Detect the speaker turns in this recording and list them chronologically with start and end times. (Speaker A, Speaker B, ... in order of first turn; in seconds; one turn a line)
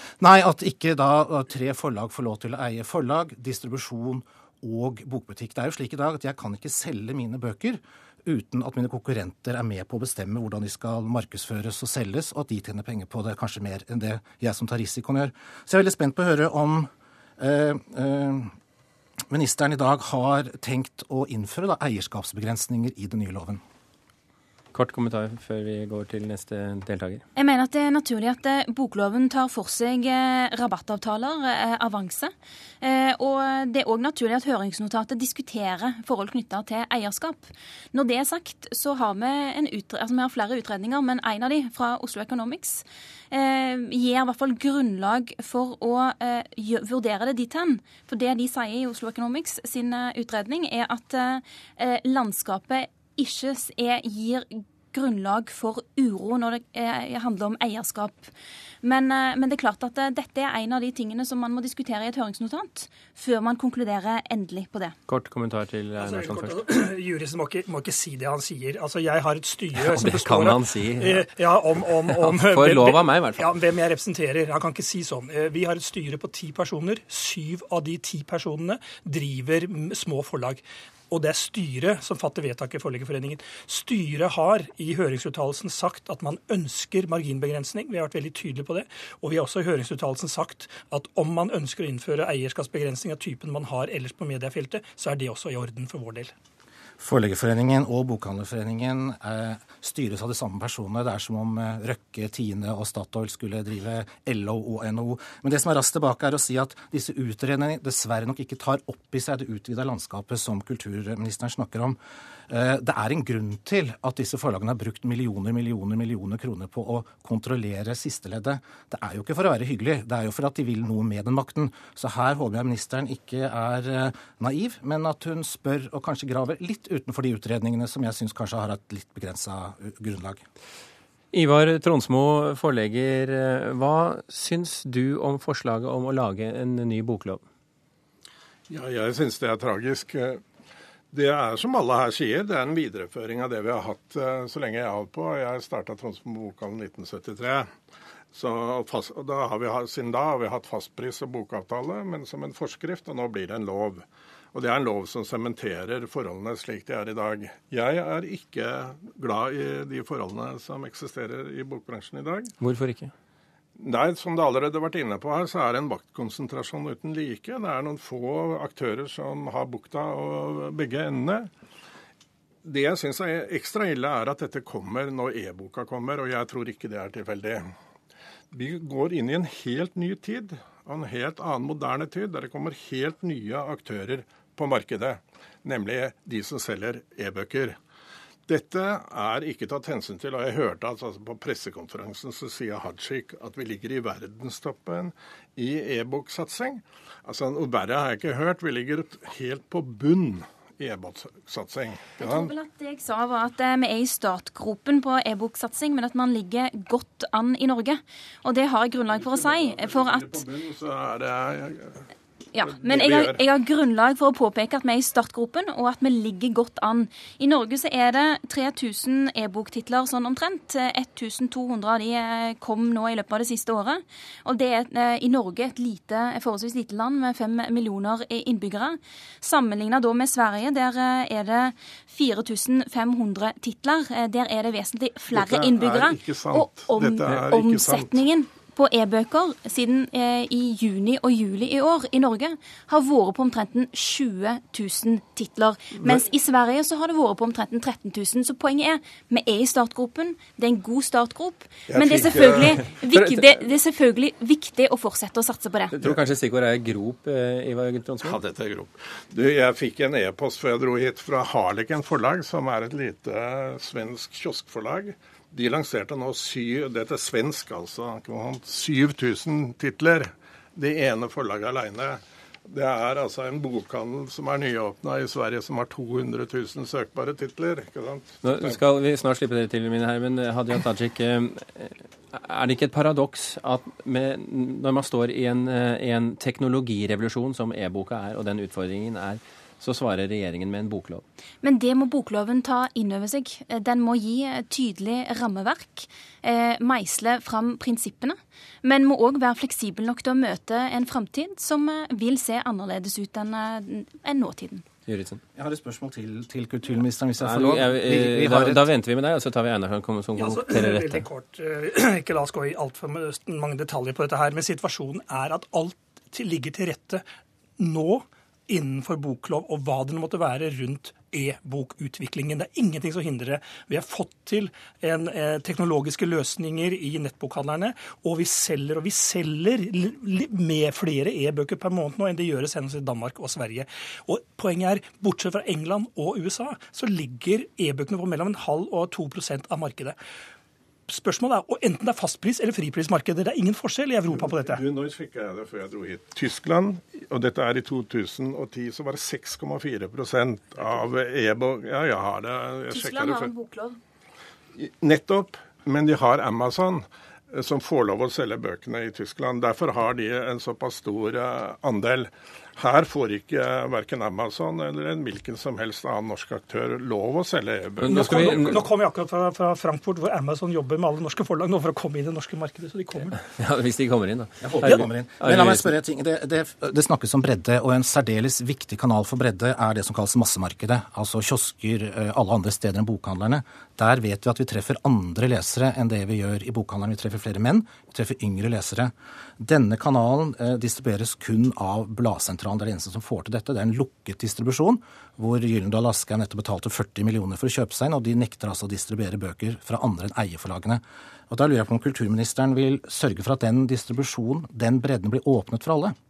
Speaker A: 0.2-18.5
Speaker A: 19.3-23.6
Speaker B: 24.7-27.2
Speaker C: 27.4-58.3
Speaker C: 58.8-65.0
Speaker B: 65.1-66.6
Speaker D: 66.0-96.3
Speaker B: 69.7-71.3
Speaker B: 72.0-73.6
Speaker A: 97.0-112.0
Speaker A: 112.5-130.4
Speaker B: 131.3-137.4
Speaker E: 138.7-140.4
Speaker E: 141.1-147.7
Speaker E: 148.3-162.5
Speaker B: 162.6-163.1
Speaker E: 163.8-171.5
Speaker E: 172.6-177.7
Speaker E: 178.5-187.8
Speaker E: 188.5-202.5
Speaker C: 202.2-210.4
Speaker E: 209.1-212.1
Speaker C: 212.5-256.0
Speaker E: 212.7-213.4
Speaker E: 235.3-238.2
Speaker E: 251.9-252.9
Speaker B: 253.1-253.6
Speaker B: 255.9-258.4
Speaker E: 258.2-278.8
Speaker B: 278.4-291.2
Speaker C: 291.6-304.9
Speaker B: 305.1-305.4
Speaker A: 305.6-308.9
Speaker B: 307.4-311.3
Speaker D: 310.4-317.2
Speaker D: 317.8-340.2
Speaker D: 341.1-344.8
Speaker E: 344.3-353.5
Speaker C: 352.9-354.0
Speaker E: 354.8-368.8
Speaker B: 368.0-368.8
Speaker D: 368.1-373.4
Speaker B: 373.5-375.9
Speaker A: 374.6-406.1